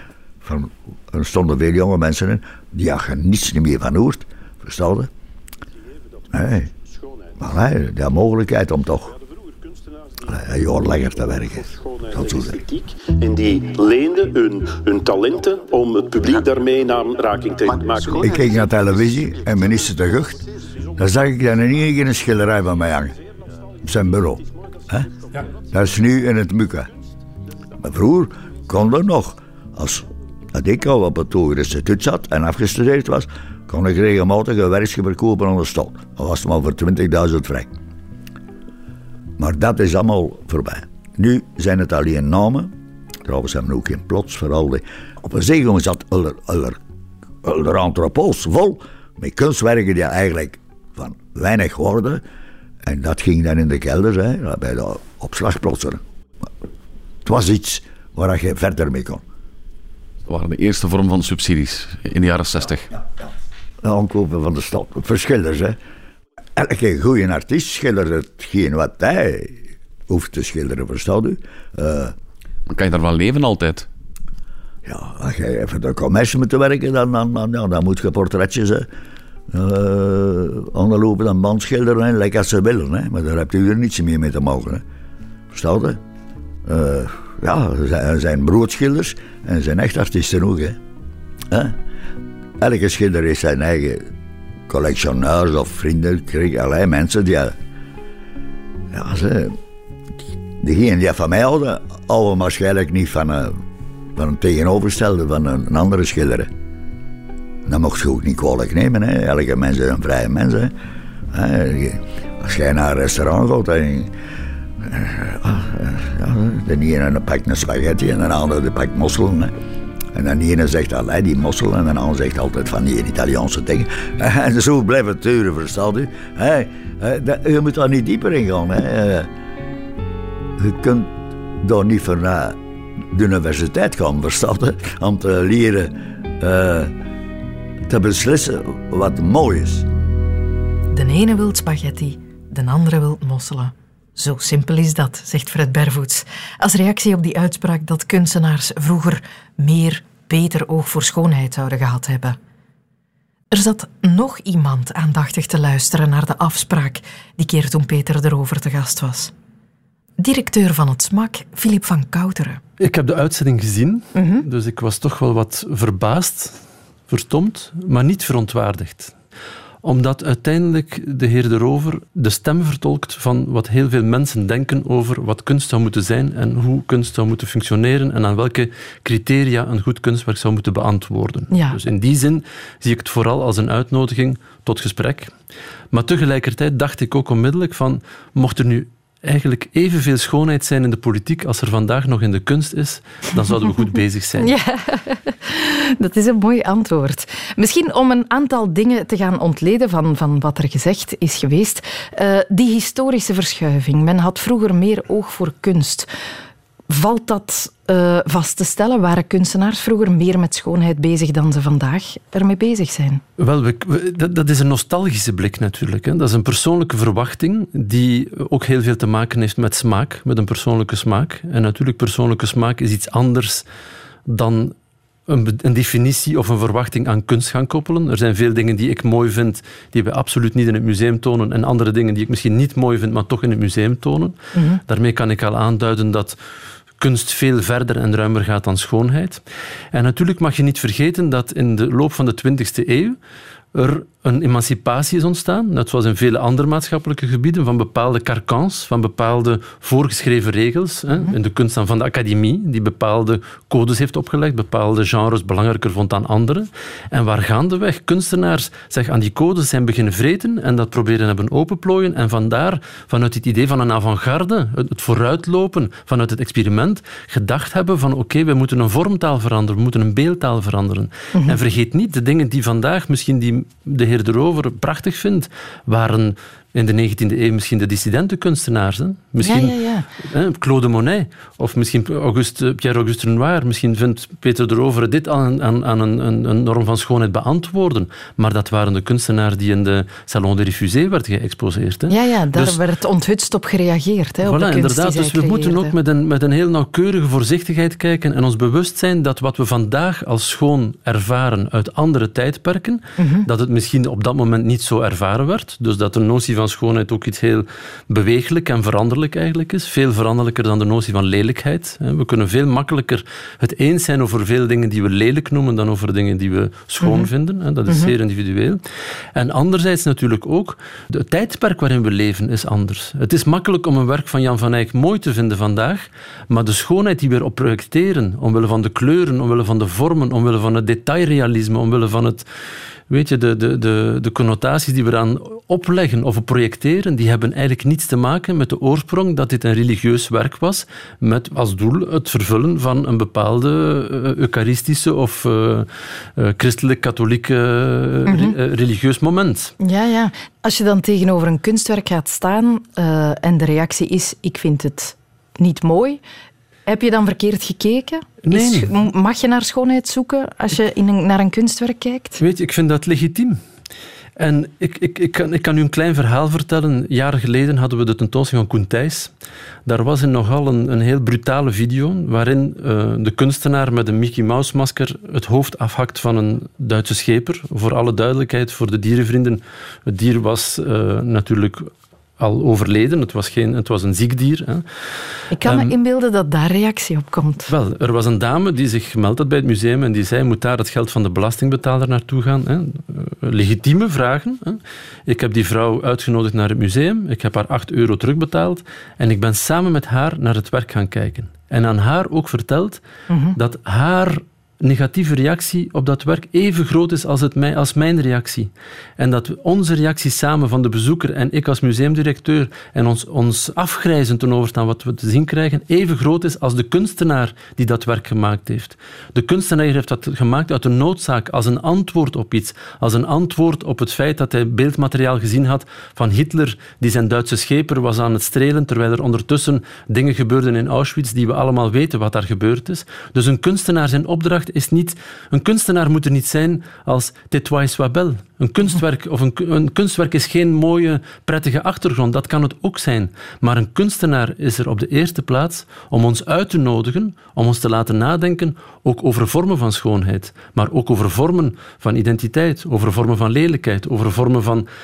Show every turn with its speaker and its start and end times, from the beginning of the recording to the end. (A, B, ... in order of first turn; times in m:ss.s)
0:00.4-0:05.1 A
0:06.3-0:06.7 A
0:07.4-0:09.1 A
0:10.2-0:12.6 A
0:11.7-0:18.5 B
0:18.2-0:20.4 A
0:21.0-0:23.1 A
0:23.8-0:25.1 A
0:25.7-0:26.9 A
0:27.8-0:37.7 A
0:39.4-0:42.7 A
0:43.2-0:46.8 A
0:47.4-0:52.2 A
0:52.8-0:56.0 A
0:57.2-0:59.2 A
1:00.2-1:02.9 C
1:03.8-1:05.8 A
1:06.6-1:12.1 A
1:12.7-1:13.9 C
1:14.8-1:18.9 A
1:19.5-1:24.8 A
1:25.5-1:26.0 A
1:26.6-1:30.8 A
1:31.5-1:31.8 A
1:32.6-1:34.1 A
1:34.7-1:37.6 A
1:38.9-1:39.6 A
1:40.6-1:43.6 A
1:44.2-1:46.5 A
1:47.6-1:50.7 A
1:51.3-1:54.1 A
1:54.8-1:59.5 A
2:00.1-2:09.3 A
2:10.6-2:12.6 A
2:13.1-2:16.9 A
2:17.8-2:19.9 A
2:20.9-2:32.4 D
2:33.5-2:39.3 D
2:40.2-2:42.6 D
2:42.8-2:46.6 E
2:44.1-2:44.4 D
2:47.1-2:49.1 E
2:49.8-3:05.3 E
3:01.5-3:01.8 D
3:05.9-3:14.5 E
3:14.4-3:26.1 D
3:26.9-3:33.2 D
3:33.4-3:43.6 E
3:44.3-3:44.7 E
3:45.3-3:56.4 E
3:54.5-3:54.8 D
3:57.0-3:59.4 E
3:59.9-4:03.2 E
4:03.7-4:52.8 E
4:31.3-4:31.6 D
4:39.4-4:40.1 D
4:52.1-4:55.9 D
4:54.4-5:18.8 E
5:03.2-5:03.4 D
5:17.0-5:17.3 D
5:17.9-5:18.1 D
5:19.3-5:32.4 E
5:33.1-5:49.7 E
5:48.3-5:48.5 D
5:49.8-5:56.2 D
5:56.8-6:02.4 D
5:58.4-5:58.9 E
6:02.4-6:03.6 E
6:04.4-6:09.3 E
6:09.8-6:24.8 E
6:25.5-6:27.7 D
6:25.6-6:25.9 E
6:27.7-6:43.0 E
6:43.3-6:43.6 D
6:43.6-7:34.9 E